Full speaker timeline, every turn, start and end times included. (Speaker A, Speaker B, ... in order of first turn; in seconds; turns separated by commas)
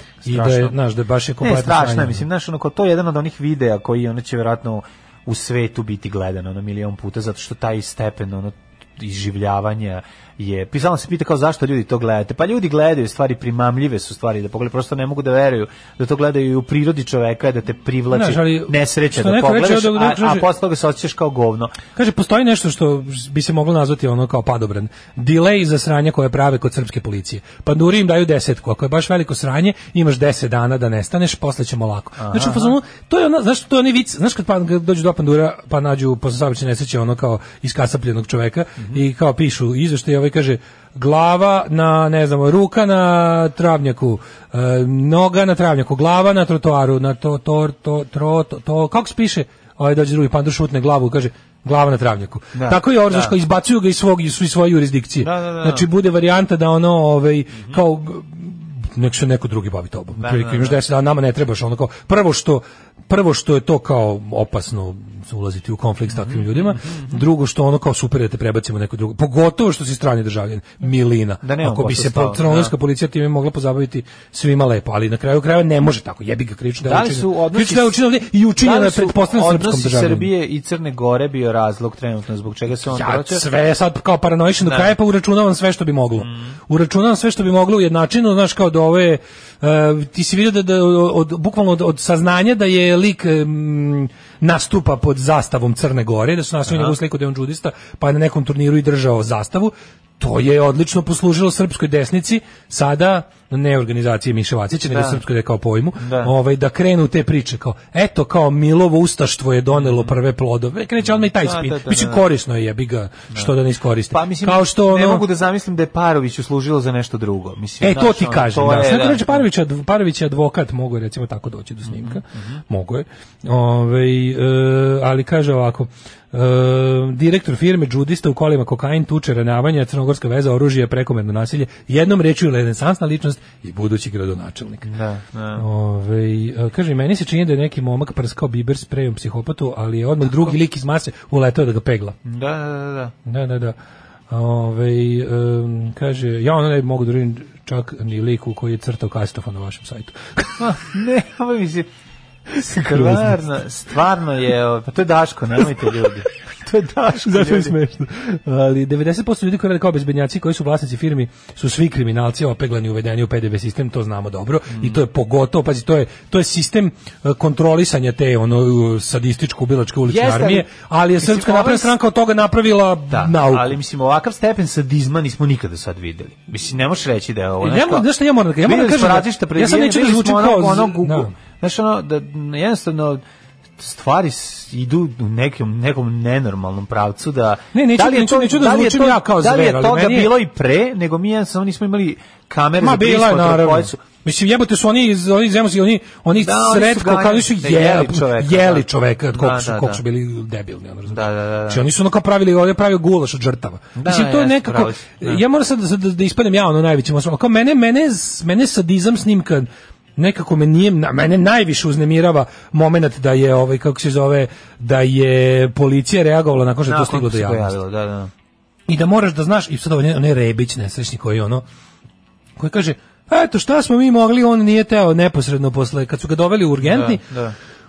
Speaker A: 0.2-0.8, Speaker B: 0.2-2.2, Speaker A: 1.4-21.8, Speaker B: 18.1-20.5, Speaker B: 21.9-80.3, Speaker A: 32.2-32.7, Speaker A: 52.5-53.3, Speaker A: 55.2-55.9, Speaker A: 60.2-60.8, Speaker A: 66.1-67.2, Speaker A: 71.4-72.7, Speaker A: 76.8-78.0, Speaker A: 78.6-83.4, Speaker B: 82.9-115.2, Speaker A: 84.6-84.9, Speaker A: 86.2-86.5, Speaker A: 96.7-96.9, Speaker A: 104.9-105.2, Speaker A: 106.0-106.3, Speaker A: 109.7-110.1, Speaker A: 111.1-112.2, Speaker A: 114.1-119.5, Speaker B: 117.8-134.9, Speaker A: 121.8-122.6, Speaker A: 134.8-135.6, Speaker B: 135.6-142.2, Speaker A: 142.2-143.1, Speaker B: 143.2-143.8, Speaker B: 144.3-150.6, Speaker A: 150.6-151.9, Speaker B: 152.5-153.4, Speaker A: 152.6-157.7, Speaker B: 157.2-173.8, Speaker A: 164.7-165.0, Speaker A: 170.0-171.9, Speaker A: 173.1-178.1, Speaker B: 177.6-181.3, Speaker A: 178.6-183.2, Speaker A: 183.8-194.0, Speaker B: 187.7-190.3, Speaker B: 192.8-217.8, Speaker A: 196.4-200.0, Speaker A: 201.1-201.8, Speaker A: 203.9-205.4, Speaker A: 216.8-218.3, Speaker B: 218.9-221.6, Speaker B: 222.6-227.2, Speaker A: 226.8-227.5